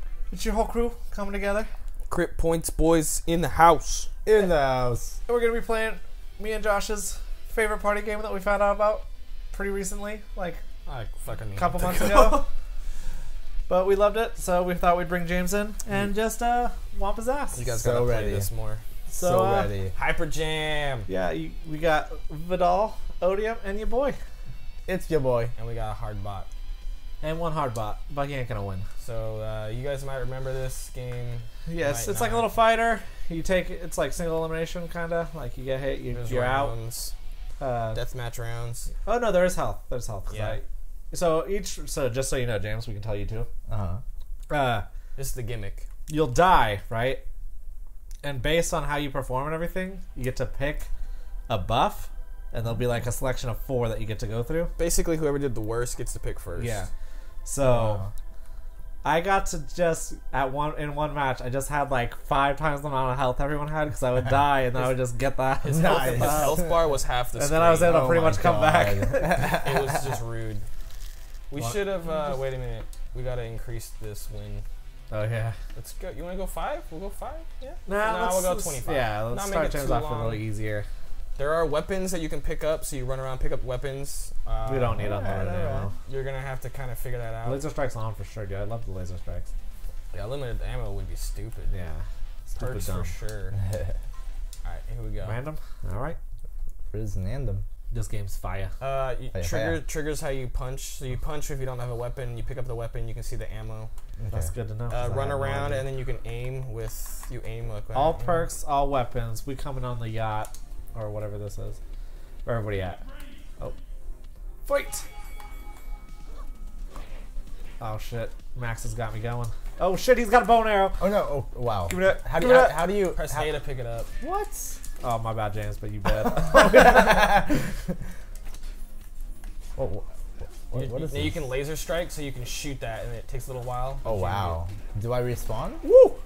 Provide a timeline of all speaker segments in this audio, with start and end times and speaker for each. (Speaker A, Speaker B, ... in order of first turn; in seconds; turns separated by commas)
Speaker A: 0.3-1.7, Speaker B: 2.1-4.1, Speaker C: 4.2-5.2, Speaker A: 5.3-10.6, Speaker B: 10.8-12.5, Speaker A: 11.6-12.4, Speaker A: 13.7-17.8, Speaker B: 17.5-18.8, Speaker C: 17.8-18.5, Speaker C: 19.1-19.9, Speaker A: 19.1-19.7, Speaker B: 19.9-21.1, Speaker A: 21.1-24.2, Speaker C: 24.9-25.5, Speaker B: 25.6-26.5, Speaker A: 27.2-28.8, Speaker B: 29.0-32.5, Speaker A: 31.6-36.8, Speaker B: 36.1-37.1, Speaker A: 37.6-38.0, Speaker B: 37.9-38.9, Speaker A: 39.0-43.5, Speaker B: 40.3-40.6, Speaker C: 43.7-44.0, Speaker A: 44.5-44.9, Speaker B: 45.1-45.9, Speaker A: 46.1-47.2, Speaker A: 48.2-50.9, Speaker A: 51.5-54.7, Speaker B: 54.8-56.8, Speaker A: 56.6-56.9, Speaker A: 57.4-58.0, Speaker C: 57.6-58.1, Speaker A: 59.0-66.7, Speaker B: 65.6-68.2, Speaker C: 65.7-66.7, Speaker A: 67.3-69.5, Speaker C: 67.8-70.1, Speaker B: 69.3-70.7, Speaker B: 71.5-74.7, Speaker A: 71.6-71.9, Speaker A: 75.1-75.5, Speaker B: 75.7-80.4, Speaker A: 77.9-80.8, Speaker B: 81.3-85.2, Speaker A: 84.7-86.0, Speaker C: 85.0-85.9, Speaker B: 86.0-87.7, Speaker A: 87.4-89.5, Speaker B: 90.1-91.7, Speaker A: 91.7-93.1, Speaker B: 92.5-93.6, Speaker C: 93.6-94.0, Speaker B: 94.6-95.4, Speaker A: 95.2-96.2, Speaker C: 96.9-97.7, Speaker A: 97.9-98.7, Speaker B: 98.8-103.9, Speaker C: 99.3-99.8, Speaker C: 104.2-104.5, Speaker A: 104.3-105.9, Speaker B: 104.9-108.5, Speaker A: 107.9-111.8, Speaker A: 112.4-113.0, Speaker A: 114.7-115.0, Speaker A: 117.8-121.0, Speaker C: 121.0-123.5, Speaker A: 121.9-122.9, Speaker B: 122.9-124.1, Speaker C: 124.2-124.8, Speaker A: 125.0-127.3, Speaker C: 126.3-127.7, Speaker C: 129.8-131.4, Speaker B: 130.7-134.6, Speaker C: 134.0-135.8